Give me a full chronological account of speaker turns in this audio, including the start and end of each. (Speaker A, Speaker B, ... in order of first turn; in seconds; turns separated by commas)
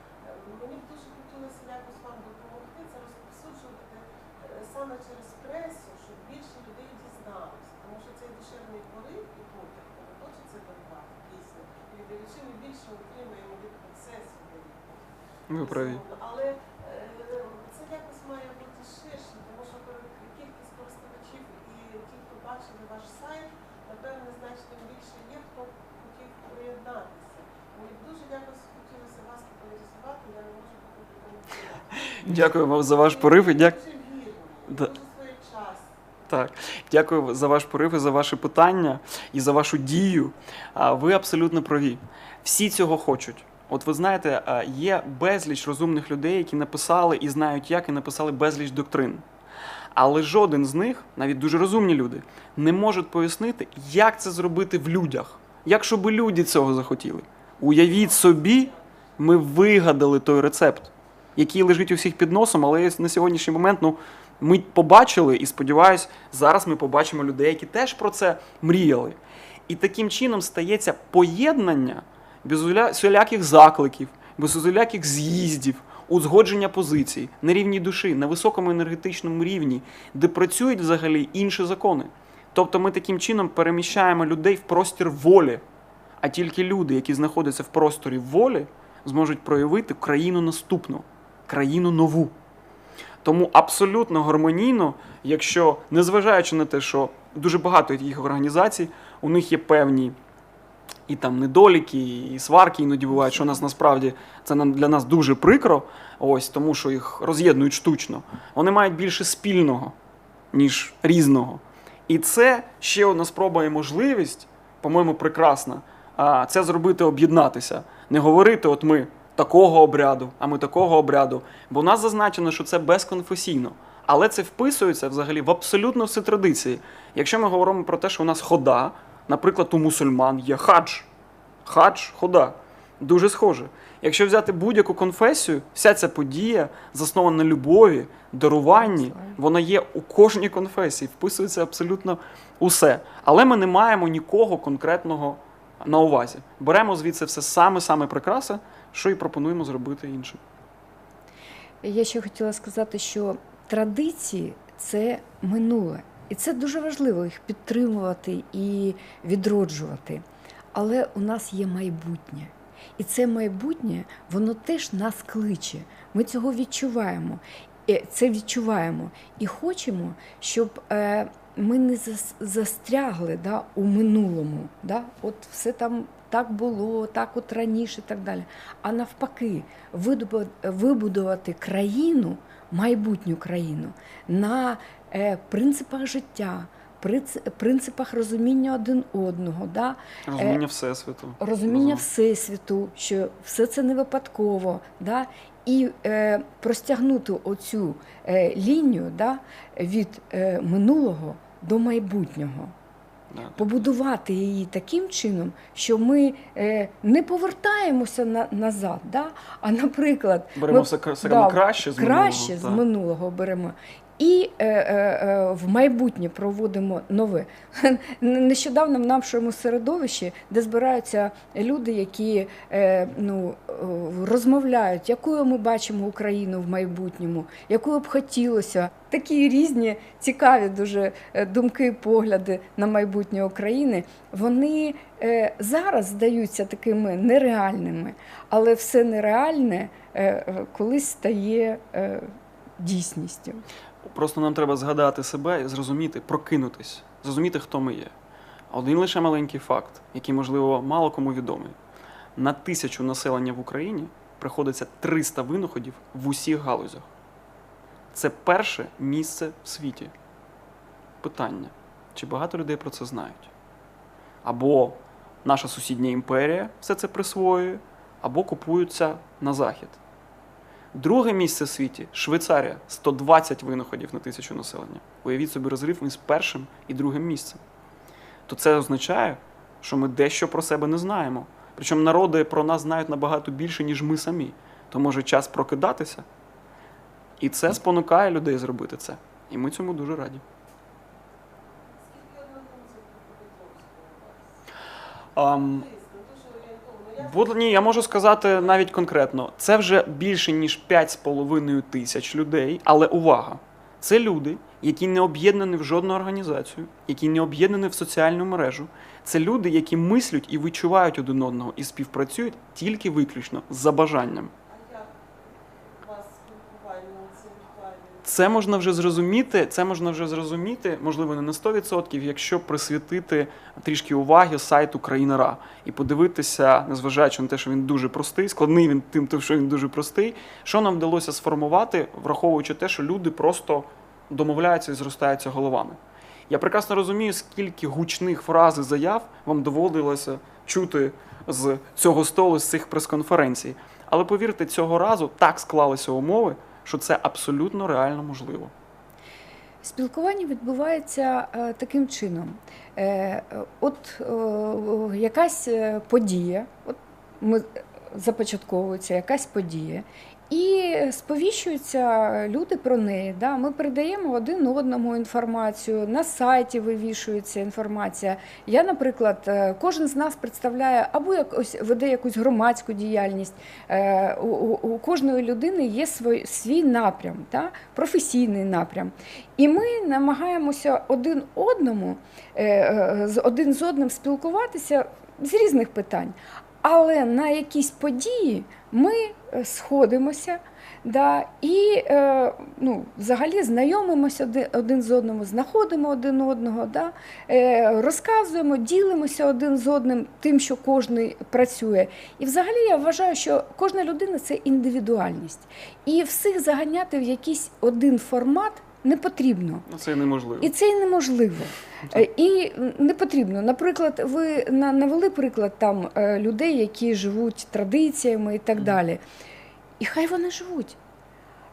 Speaker A: 0.2-36.1, Speaker B: 15.5-16.0, Speaker B: 32.2-33.8, Speaker B: 36.3-49.2, Speaker B: 49.9-85.6, Speaker A: 57.6-58.8, Speaker B: 86.2-92.3, Speaker B: 93.2-100.2, Speaker B: 101.1-109.9, Speaker C: 103.1-103.6, Speaker B: 110.5-131.1, Speaker B: 131.6-150.4, Speaker C: 138.7-139.4, Speaker C: 151.8-160.2, Speaker C: 160.7-190.6, Speaker B: 190.3-192.0, Speaker C: 191.4-202.7, Speaker B: 203.3-203.8, Speaker C: 203.6-243.6, Speaker B: 210.6-212.8, Speaker B: 244.0-248.1, Speaker B: 248.7-251.8, Speaker B: 252.3-257.1, Speaker B: 258.1-260.1, Speaker B: 261.2-263.5, Speaker B: 264.4-270.0, Speaker B: 270.9-277.6, Speaker B: 278.5-286.2, Speaker B: 287.4-290.4, Speaker A: 291.8-294.4, Speaker B: 295.3-295.9, Speaker A: 295.4-299.3, Speaker B: 297.2-314.5, Speaker A: 314.7-318.3, Speaker B: 318.2-348.7, Speaker C: 349.8-409.9, Speaker B: 409.9-410.7, Speaker C: 410.6-419.2, Speaker C: 420.0-421.0